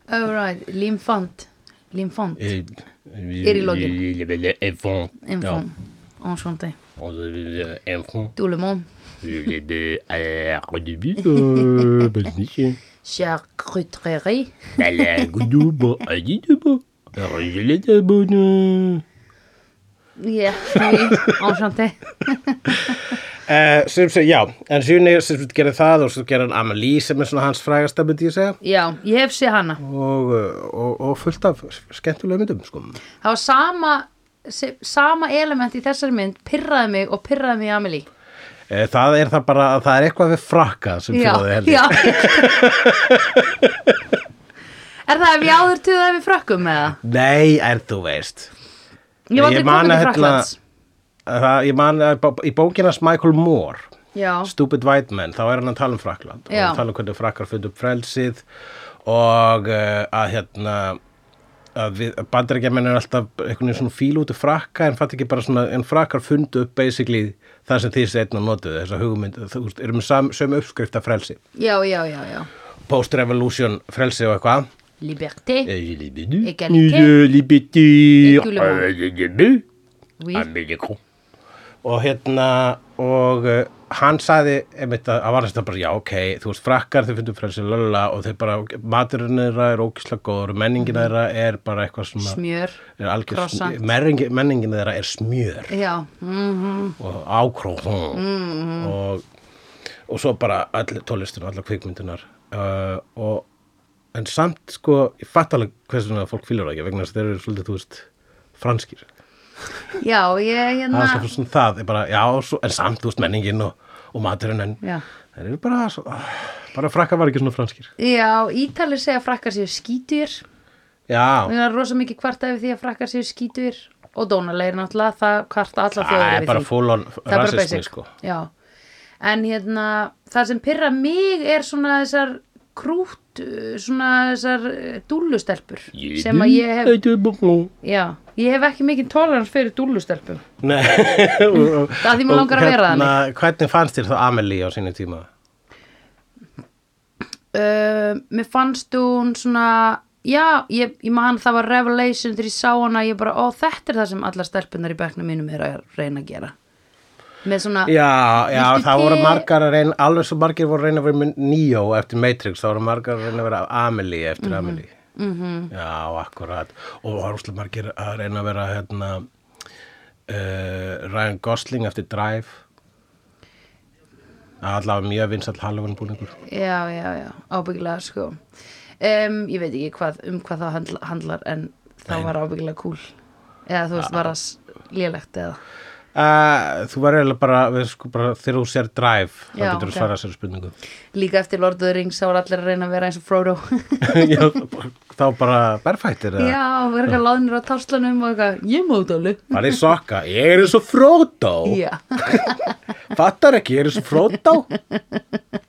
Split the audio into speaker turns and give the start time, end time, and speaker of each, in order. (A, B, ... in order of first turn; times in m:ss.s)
0:00.1-0:02.5 A
0:02.4-0:05.6 B
0:03.4-0:04.0 A
0:05.2-0:06.8 A
0:07.0-0:08.3 B
0:08.4-0:08.8 A
0:09.2-0:12.8 B
0:13.0-0:15.2 A
0:14.8-0:19.0 B
0:20.2-0:23.0 A
0:20.7-0:21.4 B
0:22.7-0:28.6 B
0:28.6-0:29.8 A
0:29.8-0:33.0 B
0:33.2-0:38.1 A
0:38.7-0:44.0 B
0:41.1-0:42.6 A
0:45.1-0:47.0 A
0:47.0-0:48.5 B
0:49.3-0:50.6 A
0:49.4-0:50.5 B
0:51.2-0:53.9 B
0:54.1-0:54.5 A
0:54.4-0:58.4 B
0:56.5-0:56.8 A
0:59.0-1:01.0 B
1:01.7-1:11.4 B
1:11.6-1:12.5 A
1:12.9-1:14.7 B
1:15.0-1:15.7 A
1:15.6-1:19.6 B
1:16.4-1:17.2 A
1:18.2-1:18.9 A
1:20.2-1:20.5 A
1:20.3-1:21.0 B
1:21.8-1:32.4 B
1:30.8-1:31.1 A
1:32.2-1:33.8 A
1:32.9-1:35.7 B
1:35.7-1:37.0 A
1:37.0-1:38.2 B
1:38.1-1:38.9 A
1:38.8-1:39.2 B
1:40.1-1:43.4 B
1:44.1-1:49.1 B
1:50.0-1:51.3 A
1:50.9-1:54.8 B
1:55.3-1:57.9 B
1:58.0-2:00.4 A
2:01.1-2:01.5 B
2:01.4-2:06.7 A
2:06.0-2:08.1 B
2:07.2-2:08.5 A
2:09.2-2:17.0 A
2:15.9-2:17.7 B
2:17.8-2:20.4 A
2:20.6-2:25.3 B
2:22.0-2:23.2 A
2:27.5-2:36.5 A
2:37.4-2:37.9 A
2:37.8-2:44.9 B
2:38.4-2:39.5 A
2:44.4-2:45.7 A
2:45.7-2:49.2 B
2:50.3-2:52.6 B
2:54.6-2:56.4 B
2:56.4-2:58.4 A
2:59.0-3:03.1 A
3:03.7-3:05.6 A
3:04.0-3:04.2 B
3:06.1-3:10.8 B
3:09.5-3:10.1 A
3:11.1-3:14.5 A
3:14.0-3:16.6 B
3:16.4-3:19.8 A
3:19.5-3:22.6 B
3:21.6-3:22.7 A
3:23.1-3:24.7 B
3:24.9-3:25.2 A